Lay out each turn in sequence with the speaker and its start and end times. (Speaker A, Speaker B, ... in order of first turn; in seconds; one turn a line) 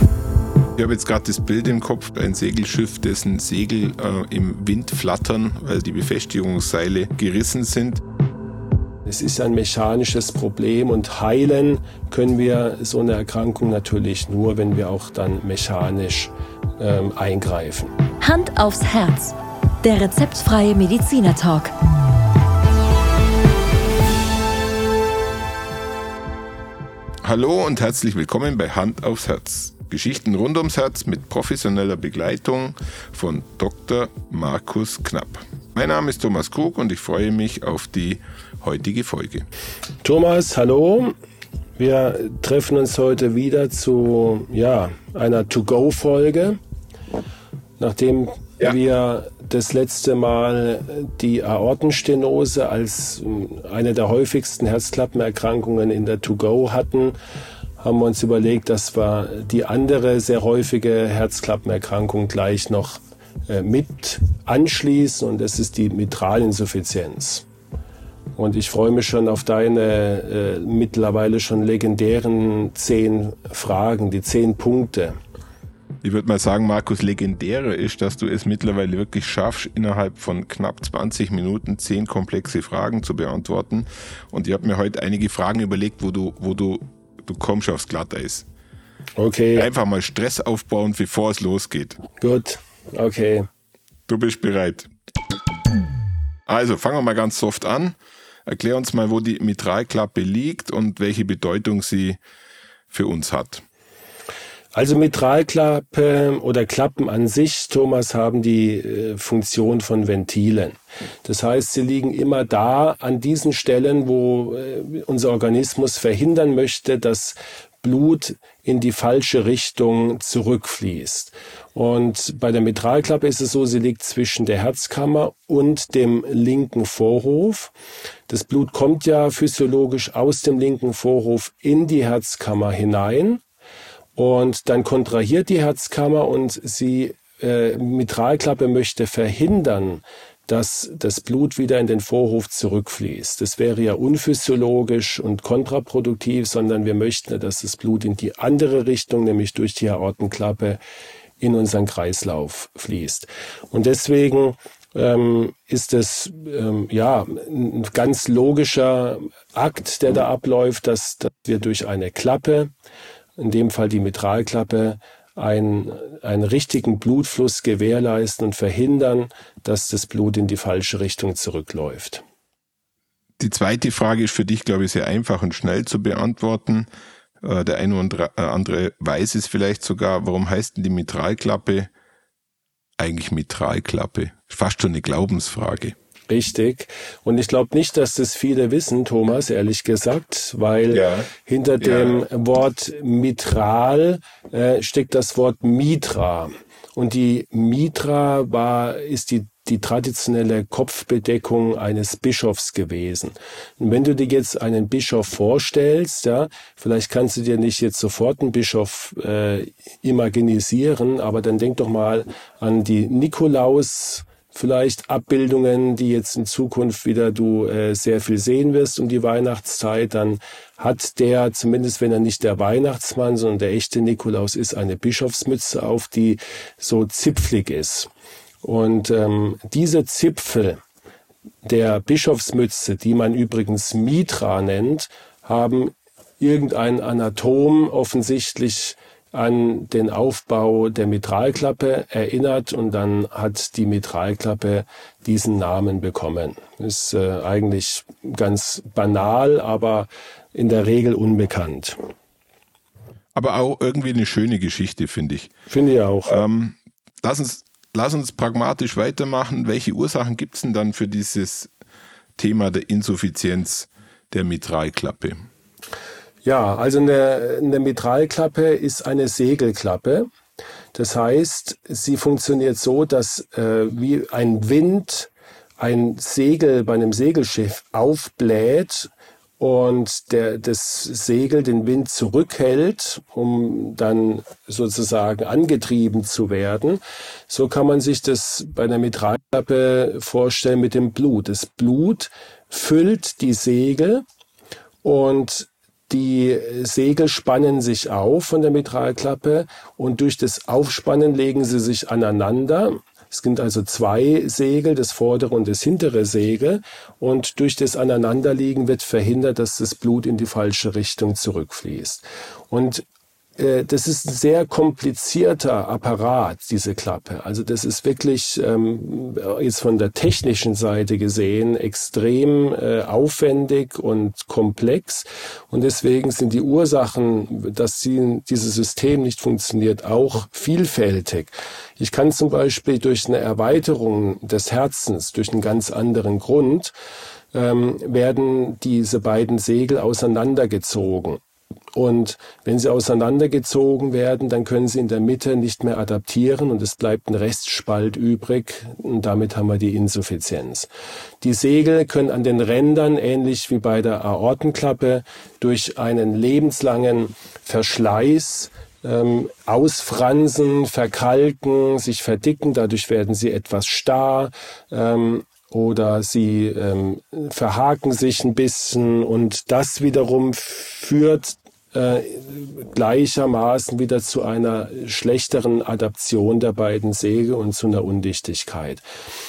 Speaker A: 0.8-8.0
Speaker B: 9.1-17.9
Speaker C: 18.2-21.7
Speaker A: 27.2-39.5
Speaker B: 40.0-41.1
Speaker B: 41.8-46.6
Speaker B: 47.8-57.1
Speaker B: 57.8-67.5
Speaker B: 68.4-75.2
Speaker A: 76.0-88.5
Speaker B: 89.2-89.7
Speaker A: 89.5-92.0
Speaker B: 92.2-93.5
Speaker A: 94.1-94.9
Speaker A: 96.5-102.2
Speaker A: 102.9-103.6
Speaker B: 104.7-127.7
Speaker B: 128.3-133.4
Speaker B: 134.2-150.8
Speaker B: 151.4-162.7
Speaker B: 163.4-172.2
Speaker A: 173.4-176.9
Speaker A: 177.4-181.9
Speaker A: 183.0-185.9
Speaker B: 186.3-228.1
Speaker A: 190.9-191.3
Speaker A: 191.8-192.2
Speaker B: 228.6-230.8
Speaker B: 231.6-252.0
Speaker A: 253.3-255.5
Speaker B: 255.7-256.4
Speaker A: 256.2-261.7
Speaker A: 262.4-265.4
Speaker B: 266.4-270.3
Speaker B: 270.9-294.2
Speaker B: 295.0-313.1
Speaker B: 313.6-336.9
Speaker B: 337.5-341.4
Speaker B: 341.9-350.9
Speaker B: 351.4-379.0